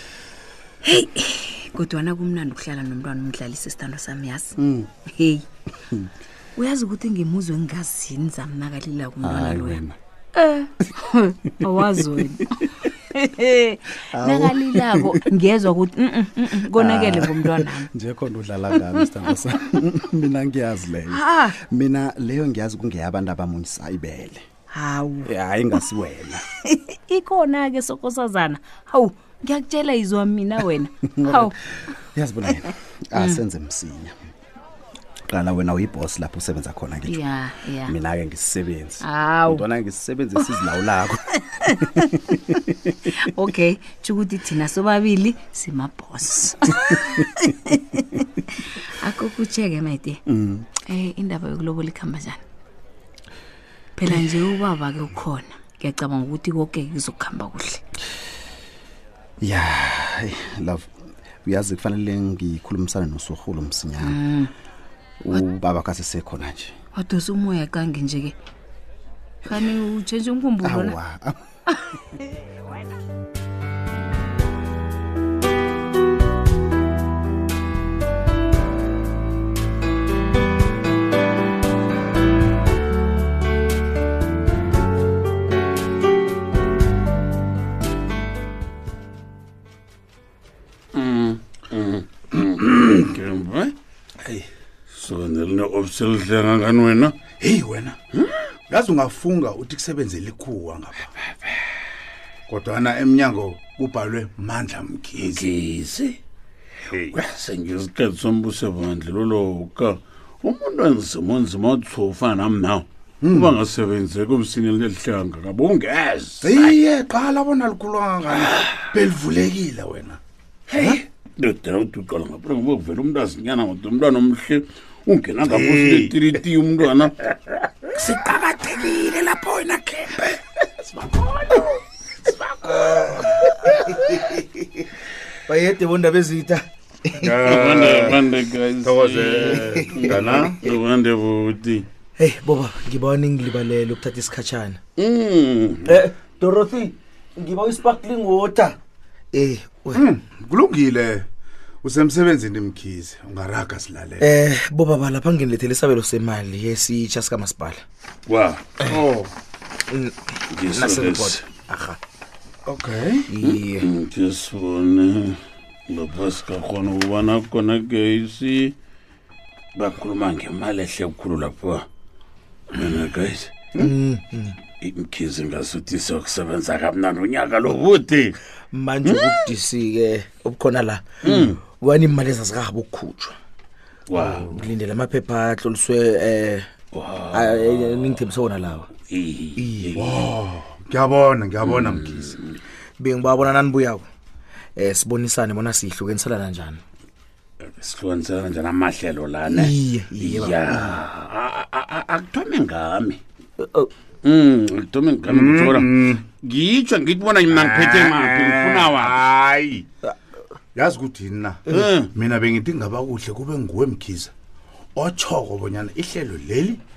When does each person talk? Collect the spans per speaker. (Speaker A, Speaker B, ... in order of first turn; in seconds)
Speaker A: 0.8-5.4, 6.5-9.8, 10.3-12.4, 13.1-17.9, 21.1-21.6, 24.7-25.3, 26.6-31.5, 33.1-33.4, 37.0-38.0, 39.0-39.6, 40.4-40.6, 41.6-42.0, 43.2-50.2, 50.7-52.4, 54.0-57.8, 64.0-64.5, 66.9-68.3, 69.4-71.0
Speaker B: 9.2-9.9, 14.1-15.2, 16.7-24.4, 25.2-26.4, 31.1-31.5, 32.1-34.2, 35.3-37.2, 37.8-42.0, 59.4-60.9, 61.4-64.2, 65.2-66.7, 70.6-71.4
Speaker C: 90.9-93.7, 94.9-97.2, 105.2-106.2, 107.1-116.8, 118.3-118.7, 120.7-127.3, 132.6-133.5, 137.4-141.8, 145.0-146.0, 158.3-158.9, 160.5-161.4, 163.4-168.7, 169.8-171.8, 172.7-173.7, 174.8-178.4, 179.0-179.4, 181.2-181.6, 184.1-184.5, 186.9-188.1, 189.1-190.1, 191.6-192.4, 197.8-203.2, 204.2-209.2, 211.7-212.1
Speaker D: 97.4-98.0, 98.7-101.1, 102.5-105.4, 113.2-113.5, 116.4-120.2, 125.4-126.1, 137.2-138.2, 138.8-140.6, 149.9-151.2, 151.8-154.2, 158.9-159.3, 162.7-163.3, 190.0-192.4, 205.3-206.2, 207.5-209.8, 210.8-211.6, 212.1-214.3, 214.9-216.8
Speaker E: 127.9-130.4, 131.4-131.7, 132.6-134.8, 135.5-137.3, 139.7-140.1, 142.2-144.8, 145.8-148.8, 149.3-150.0, 154.2-157.8, 159.9-162.0, 163.3-163.9, 173.8-174.6, 178.7-183.3, 184.1-186.7, 187.3-188.9, 189.6-190.0, 193.0-194.0, 194.8-196.8, 199.5-201.0, 203.6-203.9